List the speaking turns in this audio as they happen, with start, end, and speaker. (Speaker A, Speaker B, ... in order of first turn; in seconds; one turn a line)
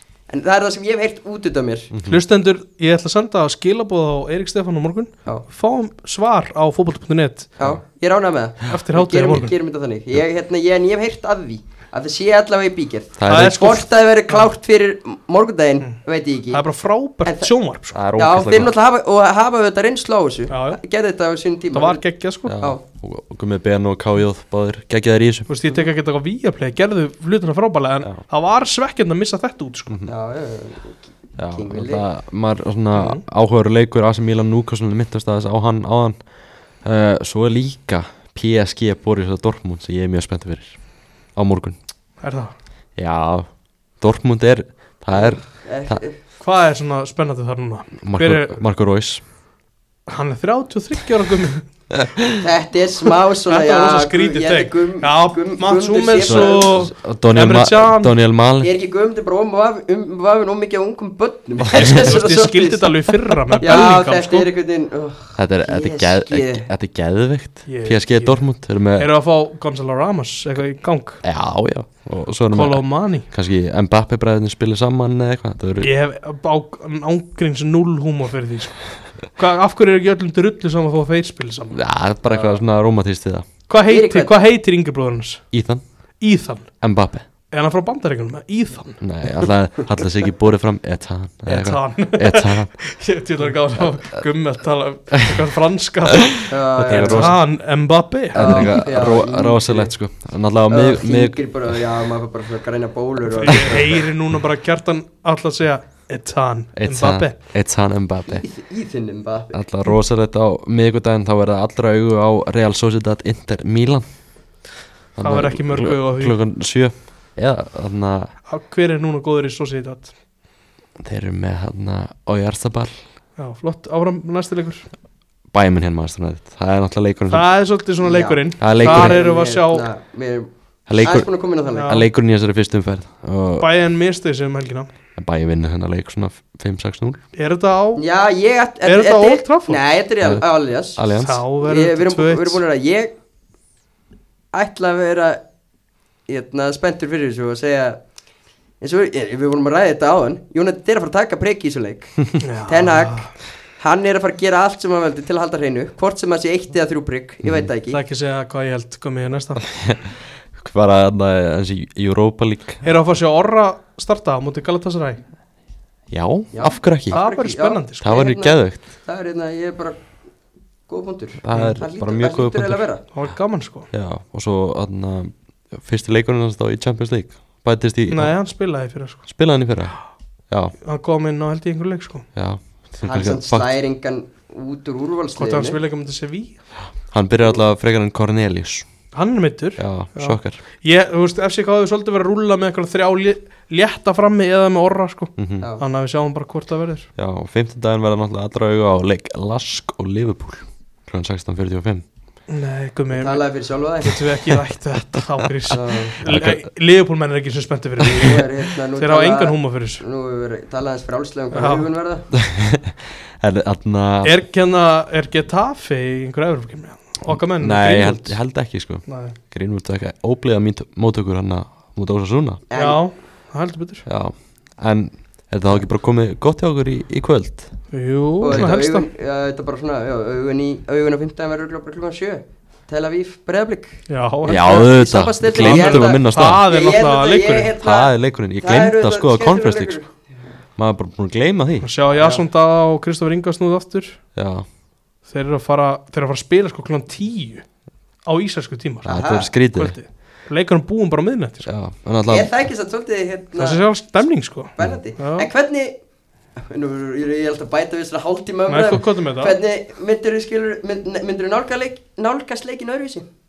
Speaker A: 0.3-1.9
Speaker B: 1.9-2.2
Speaker C: 2.1-7.5
Speaker A: 7.6-16.6
Speaker C: 8.7-9.5
Speaker B: 13.2-13.7
Speaker C: 13.3-14.5
Speaker C: 15.8-18.0
Speaker A: 17.2-17.5
Speaker B: 17.9-18.7
Speaker A: 18.2-22.0
Speaker C: 20.5-20.8
Speaker C: 21.7-22.6
Speaker B: 22.4-25.5
Speaker C: 25.5-29.9
Speaker A: 30.1-32.1
Speaker B: 31.4-36.2
Speaker C: 32.9-33.2
Speaker B: 36.8-40.8
Speaker B: 41.3-41.8
Speaker C: 42.2-42.5
Speaker B: 43.0-43.5
Speaker B: 44.0-46.0
Speaker A: 45.1-46.2
Speaker C: 46.4-48.6
Speaker B: 48.0-49.2
Speaker C: 50.1-51.6
Speaker B: 51.9-52.4
Speaker A: 52.4-56.8
Speaker C: 53.5-58.1
Speaker B: 56.2-58.7
Speaker A: 58.6-62.9
Speaker B: 61.6-62.3
Speaker C: 61.7-64.5
Speaker A: 63.6-66.7
Speaker B: 65.3-69.1
Speaker C: 67.7-71.2
Speaker B: 71.2-75.9
Speaker C: 72.5-73.3
Speaker C: 75.8-81.8
Speaker B: 81.7-83.5
Speaker A: 82.2-82.6
Speaker C: 83.7-85.5
Speaker A: 83.9-84.3
Speaker B: 85.5-85.8
Speaker C: 86.2-86.9
Speaker B: 86.8-87.2
Speaker C: 87.5-89.0
Speaker B: 89.0-92.7
Speaker C: 91.5-98.7
Speaker B: 93.8-94.2
Speaker A: 96.5-97.3
Speaker B: 96.9-97.4
Speaker B: 98.3-101.4
Speaker A: 98.3-99.9
Speaker A: 100.7-103.9
Speaker C: 103.3-107.4
Speaker B: 103.5-103.9
Speaker B: 106.8-108.4
Speaker A: 108.3-109.6
Speaker B: 109.5-114.1
Speaker B: 115.1-118.3
Speaker C: 115.2-116.3
Speaker C: 118.5-120.1
Speaker B: 121.0-123.0
Speaker C: 123.4-124.9
Speaker B: 125.5-127.5
Speaker C: 127.3-129.9
Speaker A: 128.0-130.5
Speaker B: 128.6-129.2
Speaker B: 130.9-131.3
Speaker A: 131.0-131.9
Speaker C: 131.7-132.0
Speaker B: 131.8-133.7
Speaker C: 133.6-134.9
Speaker B: 135.2-137.2
Speaker C: 137.3-138.0
Speaker A: 138.0-141.0
Speaker C: 138.8-139.8
Speaker B: 140.9-141.4
Speaker C: 141.2-142.6
Speaker A: 141.6-143.1
Speaker A: 144.5-145.4
Speaker A: 146.3-148.0
Speaker A: 148.8-158.0
Speaker C: 152.4-153.3
Speaker C: 157.9-159.8
Speaker B: 159.6-162.9
Speaker C: 162.8-165.2
Speaker B: 166.1-167.2
Speaker A: 166.5-170.0
Speaker C: 167.1-168.2
Speaker B: 168.0-168.8
Speaker A: 170.9-173.0
Speaker B: 171.4-172.8
Speaker C: 171.5-171.8
Speaker C: 173.1-173.9
Speaker B: 173.9-178.3
Speaker C: 178.1-179.2
Speaker B: 179.3-180.0
Speaker C: 180.8-182.2
Speaker B: 182.3-183.7
Speaker A: 183.0-185.8
Speaker C: 185.3-186.6
Speaker B: 187.1-188.9
Speaker C: 189.1-197.1
Speaker B: 189.8-190.6
Speaker B: 195.4-195.6
Speaker B: 197.2-202.0
Speaker C: 202.5-203.4
Speaker A: 203.1-204.2
Speaker C: 204.0-210.0
Speaker A: 205.7-206.1
Speaker B: 206.2-206.6
Speaker A: 208.1-212.2
Speaker C: 211.5-211.9
Speaker B: 212.3-214.4
Speaker C: 214.2-218.4
Speaker B: 217.3-222.6
Speaker C: 219.1-219.4
Speaker A: 222.7-223.0
Speaker C: 222.8-224.0
Speaker B: 224.1-227.7
Speaker C: 227.9-229.1
Speaker A: 228.4-240.1
Speaker C: 234.1-234.8
Speaker B: 234.4-236.6
Speaker C: 235.6-237.7
Speaker B: 237.8-240.0
Speaker B: 240.8-241.9
Speaker C: 241.8-244.2
Speaker B: 244.3-244.7
Speaker C: 245.3-247.6
Speaker C: 248.2-251.7
Speaker B: 249.0-249.9
Speaker A: 249.1-249.5
Speaker B: 251.7-252.5
Speaker A: 252.3-253.8
Speaker C: 253.5-255.5
Speaker A: 254.8-255.9
Speaker A: 256.6-263.2
Speaker C: 258.7-259.6